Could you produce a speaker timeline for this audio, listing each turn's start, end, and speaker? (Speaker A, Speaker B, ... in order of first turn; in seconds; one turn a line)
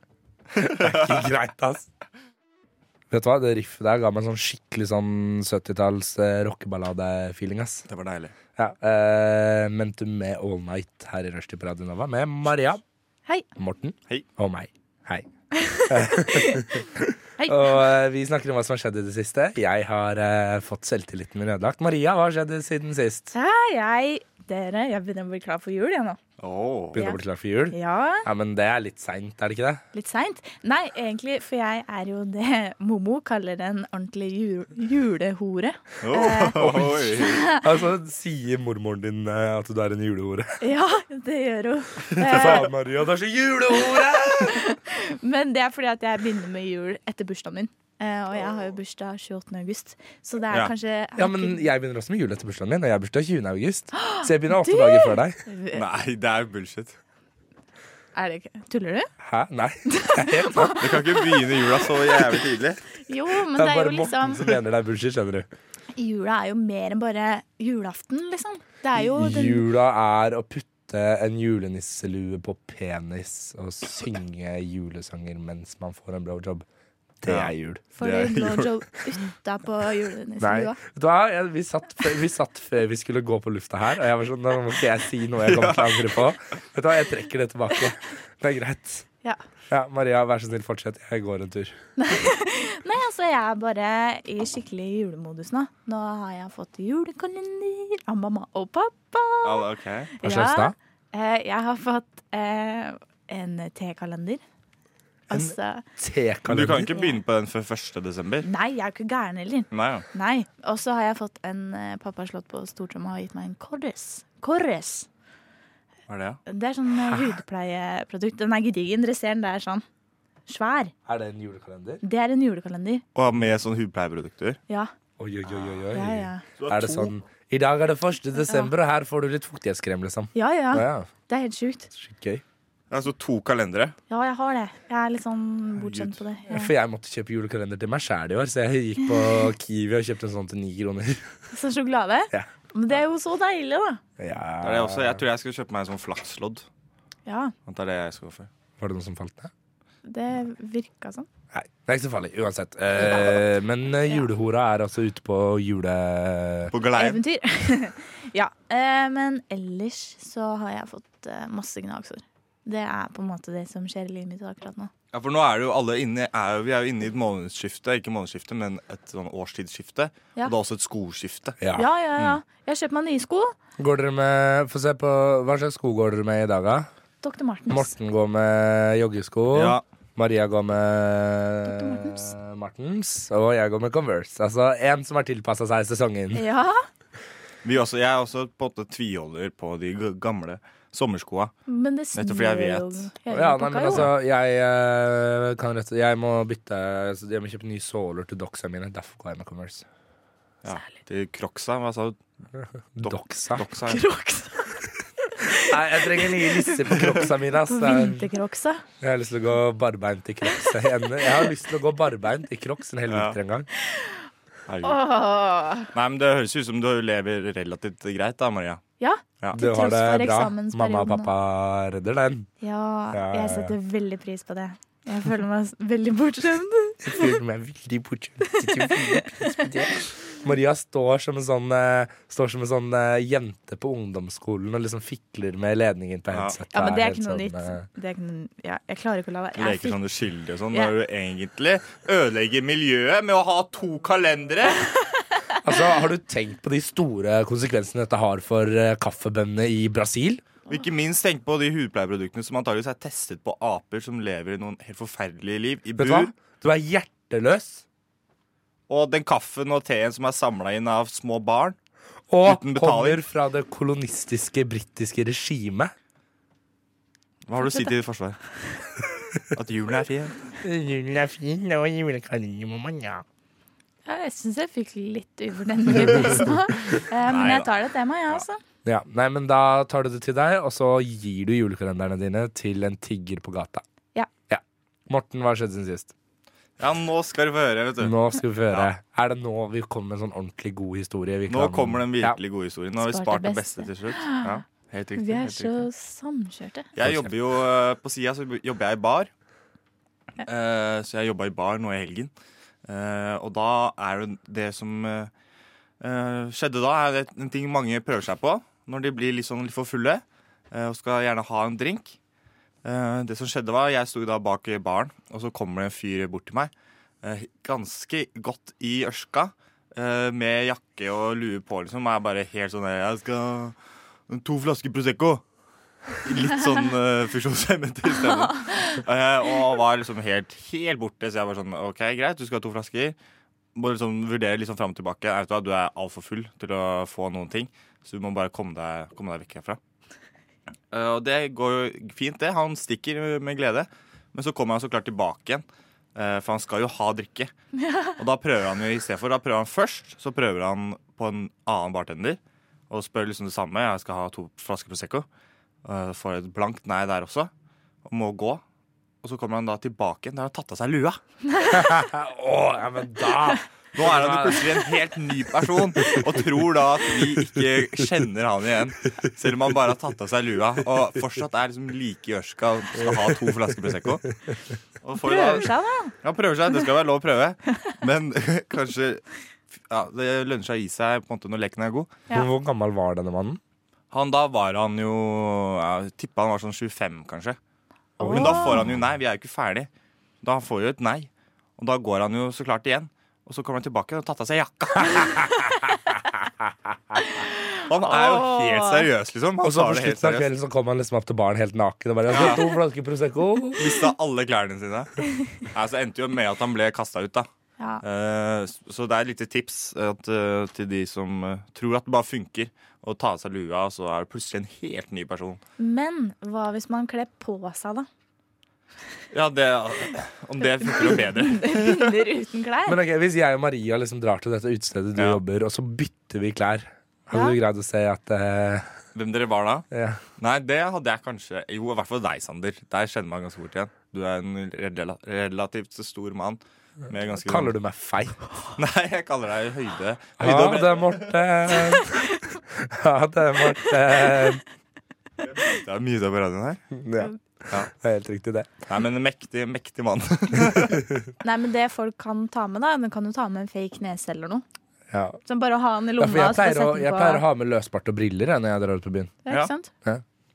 Speaker A: 0.6-1.1
Speaker B: 0.6-1.9
Speaker B: 3.1-7.9
Speaker A: 7.9-8.3
Speaker B: 8.6-12.8
Speaker B: 13.6-15.3
Speaker C: 15.6-16.7
Speaker B: 15.9-23.3
Speaker C: 17.4-17.8
Speaker C: 23.3-26.2
Speaker A: 26.4-27.0
Speaker B: 26.9-29.8
Speaker C: 27.7-28.3
Speaker C: 29.9-37.6
Speaker A: 36.0-37.4
Speaker B: 36.6-40.6
Speaker C: 40.6-42.7
Speaker B: 42.2-44.6
Speaker A: 42.3-42.6
Speaker C: 43.7-51.7
Speaker B: 51.2-55.4
Speaker C: 53.9-55.8
Speaker A: 55.7-57.0
Speaker C: 58.1-59.1
Speaker B: 59.2-60.8
Speaker C: 59.9-61.6
Speaker A: 60.8-62.8
Speaker C: 63.1-64.5
Speaker B: 63.5-65.5
Speaker C: 66.0-69.7
Speaker B: 69.0-76.7
Speaker B: 77.2-77.8
Speaker A: 77.3-78.7
Speaker C: 78.0-80.8
Speaker B: 80.4-89.1
Speaker A: 85.4-86.3
Speaker B: 89.7-91.8
Speaker C: 92.0-99.7
Speaker A: 99.4-100.1
Speaker C: 100.2-104.4
Speaker B: 100.2-100.7
Speaker C: 105.3-105.8
Speaker B: 105.3-106.9
Speaker A: 106.5-108.5
Speaker C: 108.4-115.1
Speaker A: 109.7-110.1
Speaker A: 116.1-116.4
Speaker C: 116.5-119.8
Speaker B: 117.1-117.4
Speaker C: 120.5-120.9
Speaker B: 121.1-122.0
Speaker C: 122.0-123.0
Speaker A: 123.2-124.6
Speaker B: 125.2-131.1
Speaker C: 125.9-126.5
Speaker A: 126.6-127.1
Speaker C: 130.3-131.9
Speaker B: 131.9-132.4
Speaker A: 132.9-133.9
Speaker C: 134.1-136.7
Speaker A: 135.8-136.2
Speaker B: 136.5-141.3
Speaker C: 141.5-144.0
Speaker B: 144.2-145.2
Speaker A: 144.6-146.7
Speaker C: 147.3-147.5
Speaker A: 147.7-148.5
Speaker B: 148.8-149.5
Speaker C: 150.0-151.3
Speaker B: 151.5-156.7
Speaker A: 156.7-157.2
Speaker C: 157.0-164.9
Speaker A: 165.1-171.6
Speaker B: 171.6-171.9
Speaker C: 171.8-173.6
Speaker B: 173.8-176.9
Speaker C: 177.2-177.9
Speaker B: 177.7-186.4
Speaker A: 179.5-179.8
Speaker C: 181.6-182.3
Speaker C: 186.3-186.8
Speaker A: 187.6-191.5
Speaker C: 191.7-194.1
Speaker A: 192.2-193.1
Speaker B: 193.3-199.9
Speaker A: 200.6-202.2
Speaker B: 202.9-203.7
Speaker A: 203.0-204.0
Speaker C: 203.9-204.8
Speaker C: 205.3-207.2
Speaker B: 205.6-208.3
Speaker C: 207.7-208.8
Speaker B: 209.0-213.7
Speaker A: 213.1-213.4
Speaker A: 214.7-215.0
Speaker C: 214.8-215.9
Speaker A: 215.9-218.8
Speaker C: 219.0-221.3
Speaker B: 219.5-222.5
Speaker C: 222.6-227.3
Speaker B: 223.1-223.8
Speaker B: 227.0-237.8
Speaker C: 228.6-229.6
Speaker A: 236.3-236.6
Speaker C: 236.7-240.0
Speaker A: 239.6-244.9
Speaker B: 245.6-250.4
Speaker A: 250.7-256.3
Speaker B: 256.0-257.8
Speaker A: 258.9-261.8
Speaker B: 262.3-265.9
Speaker A: 262.4-263.2
Speaker A: 267.5-268.4
Speaker A: 269.5-270.5
Speaker B: 270.6-273.2
Speaker C: 274.1-278.6
Speaker A: 277.3-277.7
Speaker B: 278.9-283.8
Speaker B: 284.5-286.1
Speaker A: 286.8-288.1
Speaker B: 288.0-292.4
Speaker A: 291.5-295.8
Speaker C: 293.0-294.5
Speaker C: 295.2-296.9
Speaker A: 297.0-299.3
Speaker B: 297.0-297.3
Speaker A: 300.4-302.3
Speaker A: 302.9-305.3
Speaker A: 306.0-312.2
Speaker A: 312.8-316.7
Speaker A: 317.2-323.8
Speaker A: 324.3-325.4
Speaker A: 326.2-333.2
Speaker A: 333.8-339.8
Speaker A: 340.9-347.5
Speaker A: 348.2-355.3
Speaker A: 355.8-357.5
Speaker A: 358.1-358.6
Speaker A: 359.2-361.2
Speaker B: 361.7-364.8
Speaker A: 364.0-374.3
Speaker B: 373.0-373.9
Speaker A: 375.0-379.2
Speaker C: 375.2-376.1
Speaker A: 379.8-382.1
Speaker B: 382.3-383.6
Speaker A: 384.1-387.6
Speaker C: 388.2-388.8
Speaker B: 388.2-388.9
Speaker A: 388.2-389.9
Speaker A: 390.4-395.4
Speaker C: 397.3-399.1
Speaker A: 397.9-400.5
Speaker B: 399.6-404.0
Speaker A: 402.3-402.6
Speaker A: 403.8-407.5
Speaker A: 408.0-415.6
Speaker C: 415.8-418.1
Speaker A: 419.3-422.1
Speaker C: 420.9-423.0
Speaker B: 422.9-429.0
Speaker A: 425.2-425.4
Speaker C: 427.3-427.6
Speaker A: 429.1-429.9
Speaker B: 429.9-430.2
Speaker A: 430.4-437.7
Speaker B: 437.4-438.5
Speaker A: 438.8-441.4
Speaker B: 440.4-444.6
Speaker A: 445.4-446.9
Speaker B: 446.9-448.7
Speaker A: 448.9-451.0
Speaker B: 450.9-451.3
Speaker C: 451.4-454.6
Speaker B: 455.1-455.4
Speaker C: 455.5-457.4
Speaker B: 456.2-459.4
Speaker C: 459.5-459.9